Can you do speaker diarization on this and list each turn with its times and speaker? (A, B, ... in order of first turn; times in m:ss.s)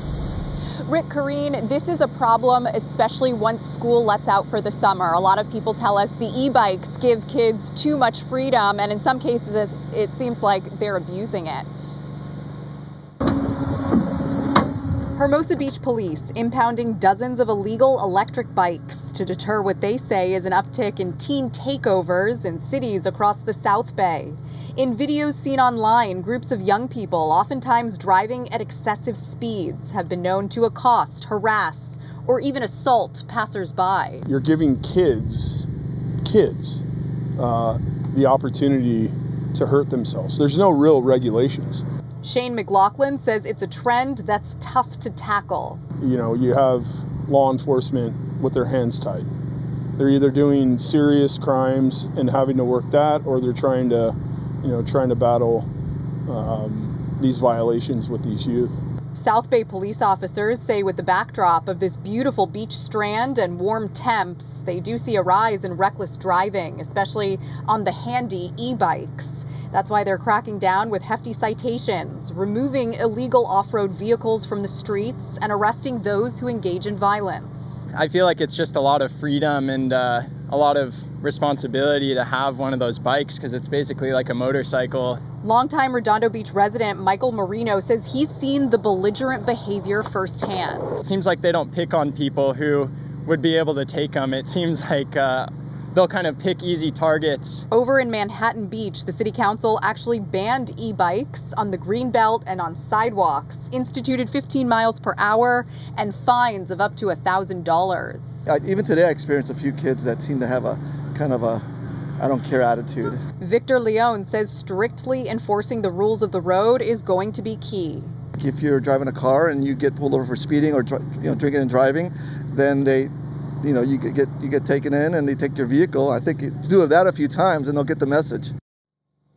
0:00.9-0:12.0 A
0:15.2-0:34.2 A
0:34.3-0:35.7 B
0:36.2-0:36.8 B
0:37.4-0:41.8 B
0:42.2-0:45.8 A
0:46.0-0:49.3 B
0:50.0-0:55.7 B
0:56.3-0:58.8 B
0:59.1-1:17.8 A
1:17.9-1:25.2 C
1:25.4-1:31.0 A
1:31.0-1:37.6 C
1:37.7-1:48.4 A
1:48.5-1:51.6 D
1:52.2-1:53.2 D
1:53.4-1:58.1 A
1:58.4-2:03.1 D
2:03.6-2:08.5 D